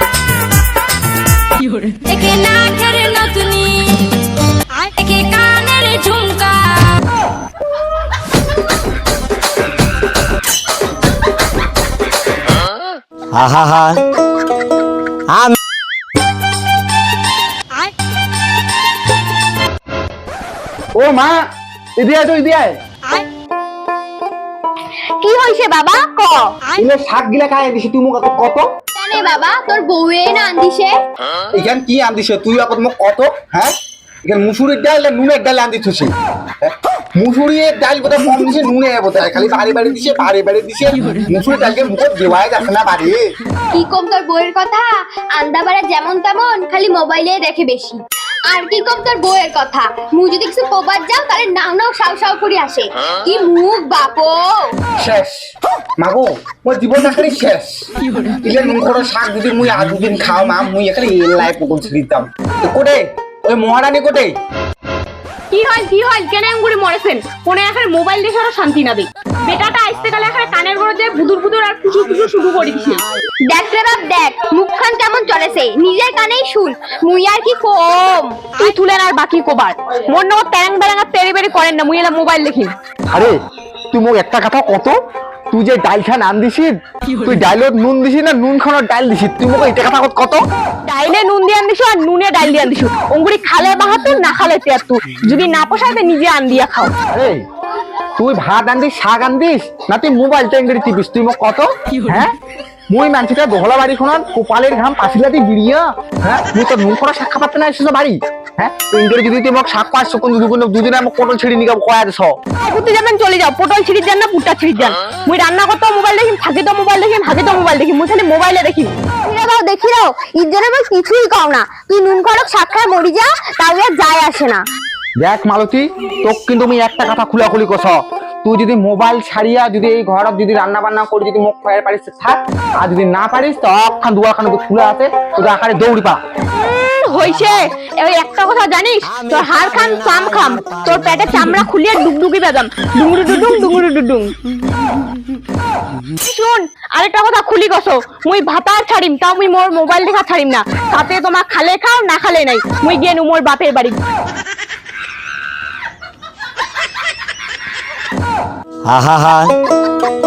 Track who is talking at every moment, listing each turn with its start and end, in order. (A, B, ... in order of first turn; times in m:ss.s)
0:01.9-0:04.0 A
0:04.7-0:06.9 A
0:13.3-0:14.0 B
0:15.3-0:15.6 B
0:21.0-0:21.4 C
0:22.0-0:22.8 C
0:25.2-0:26.4 D
0:26.8-0:28.7 C
0:29.0-0:30.9 E
0:31.6-0:33.7 C
0:34.3-0:43.3 C
0:43.7-0:54.7 E
0:55.0-0:55.5 C
0:56.0-1:04.4 C
1:05.5-1:13.0 D
1:13.4-1:18.4 E
1:18.5-1:22.7 D
1:23.1-1:23.4 C
1:23.9-1:25.0 C
1:25.5-1:30.4 C
1:30.9-1:36.9 D
1:37.1-1:37.4 C
1:38.2-1:42.4 C
1:42.9-1:52.4 C
1:52.6-1:58.9 D
2:02.9-2:04.6 D
2:05.2-2:16.2 C
2:16.6-2:24.3 D
2:17.1-2:17.5 B
2:19.1-2:21.4 B
2:26.2-2:34.0 D
2:38.8-2:39.5 B